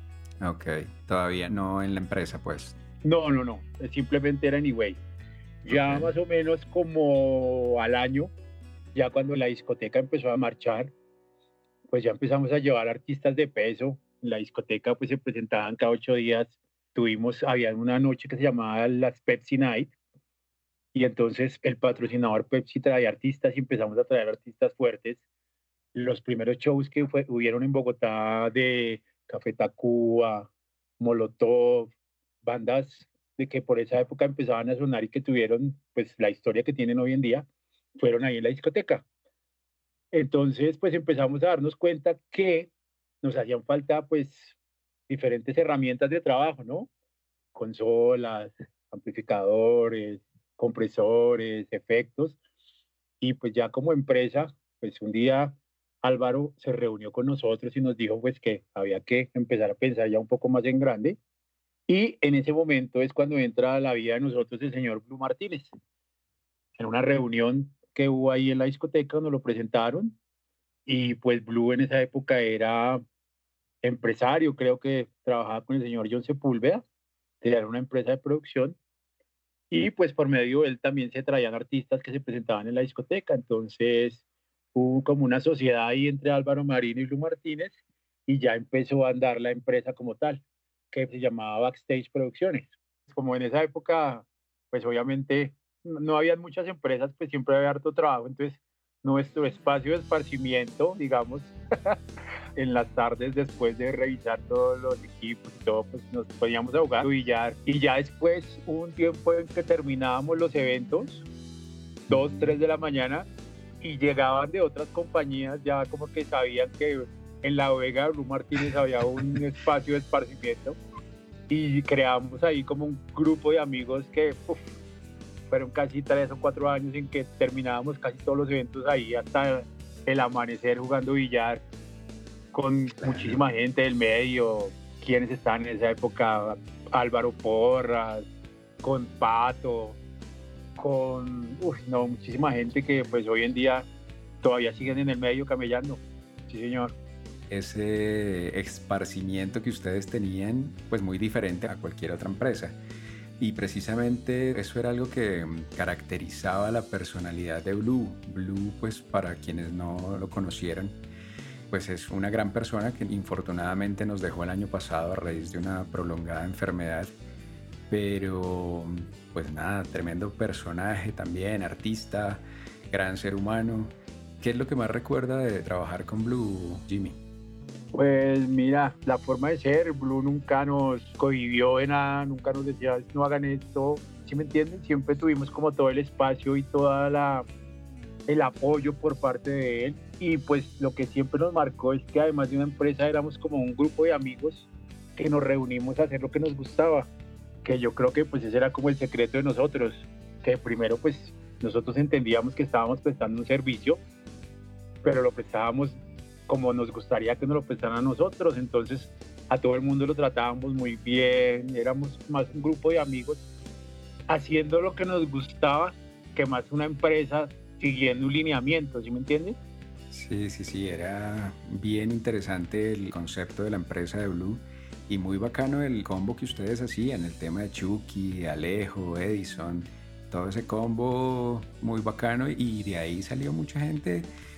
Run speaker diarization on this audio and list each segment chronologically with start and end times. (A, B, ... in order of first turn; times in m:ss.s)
0:00.4-0:02.8 A
0:03.0-0:05.0 B
0:05.6-0:08.3 B
0:05.7-0:06.1 A
0:08.9-0:10.9 B
0:11.9-0:19.9 B
0:20.9-0:25.2 B
0:25.9-0:39.0 B
0:40.1-0:42.7 B
0:43.2-0:44.6 B
0:45.1-0:46.9 B
0:47.5-0:52.4 B
0:53.2-1:01.2 B
1:01.9-1:05.7 B
1:06.8-1:10.2 B
1:10.8-1:13.0 B
1:13.8-1:16.8 B
1:17.4-1:18.8 B
1:19.7-1:24.2 B
1:24.7-1:42.0 B
1:42.6-1:51.2 B
1:52.1-1:53.3 B
1:52.1-1:52.4 A
1:53.8-2:00.8 B
2:01.5-2:04.7 B
2:05.5-2:11.6 B
2:12.5-2:18.3 B
2:13.0-2:13.4 A
2:18.8-2:20.0 B
2:20.8-2:23.9 B
2:24.4-2:26.9 B
2:27.5-2:32.8 A
2:33.4-2:41.0 A
2:41.7-2:47.1 A
2:47.9-2:57.2 A
2:57.9-3:07.4 B
3:08.3-3:17.1 B
3:17.6-3:24.0 B
3:25.0-3:33.4 B
3:34.3-3:39.6 B
3:40.1-3:54.3 A